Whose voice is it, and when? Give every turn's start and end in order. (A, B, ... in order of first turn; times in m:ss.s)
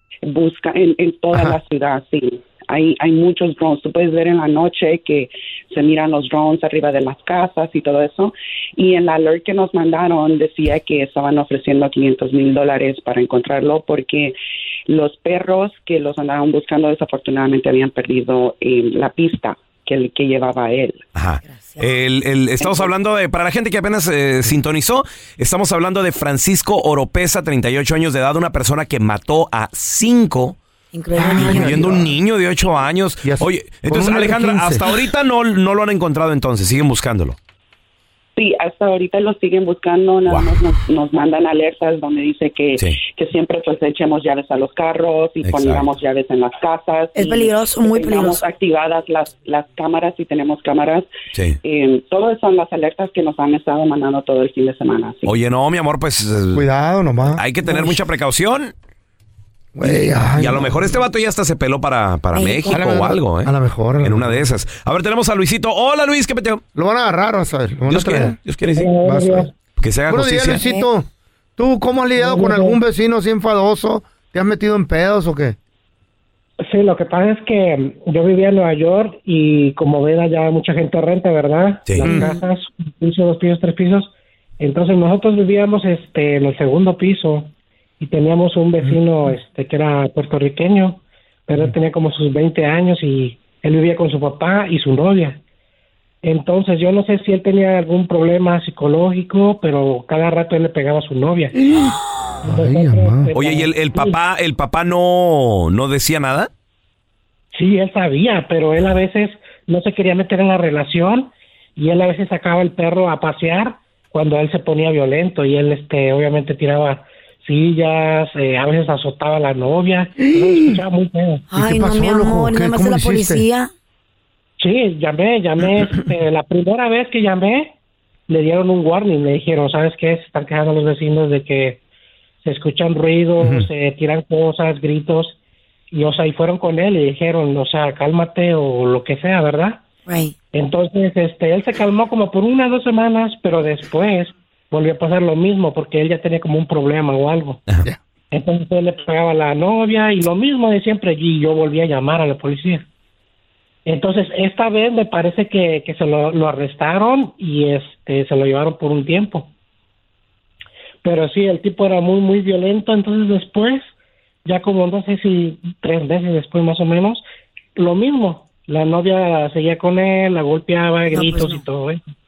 0:00.2-0:14.3 A
0:14.9-0:21.0 A
0:21.1-0:30.6 B
0:21.4-0:21.9 C
0:22.6-0:22.9 A
0:30.9-0:31.8 C
0:31.2-0:32.1 D
0:31.2-0:37.4 B
0:33.2-0:34.9 D
0:38.4-0:51.1 A
0:40.3-0:40.5 B
0:45.4-0:45.8 B
0:47.1-0:48.4 C
0:51.6-0:55.3 A
0:55.2-0:56.6 B
0:56.5-0:57.9 D
0:57.3-0:58.7 B
0:59.7-1:01.0 D
0:59.8-1:06.6 B
1:02.3-1:02.8 C
1:02.7-1:04.4 D
1:06.7-1:08.4 D
1:07.9-1:08.9 B
1:08.8-1:09.5 E
1:09.0-1:09.5 D
1:09.8-1:10.6 B
1:10.1-1:15.6 D
1:10.5-1:10.9 C
1:12.2-1:12.8 E
1:16.6-1:35.4 E
1:22.0-1:22.3 D
1:22.0-1:22.4 C
1:28.8-1:29.3 D
1:36.2-1:41.5 E
1:41.5-1:43.3 D
1:42.4-1:44.2 E
1:43.3-1:46.5 B
1:47.5-2:01.5 E
2:00.2-2:00.8 D
2:01.5-2:03.7 C
2:01.5-2:03.4 D
2:04.6-2:07.7 E
2:08.3-2:11.8 E
2:12.4-2:15.4 E
2:13.4-2:13.7 D
2:15.9-2:19.8 E
2:20.0-2:20.3 C
2:20.5-2:27.6 E
2:28.3-2:32.8 E
2:33.8-2:39.5 E
2:41.0-2:43.9 E
2:44.4-2:47.2 E
2:47.8-2:52.0 E
2:51.1-2:51.6 C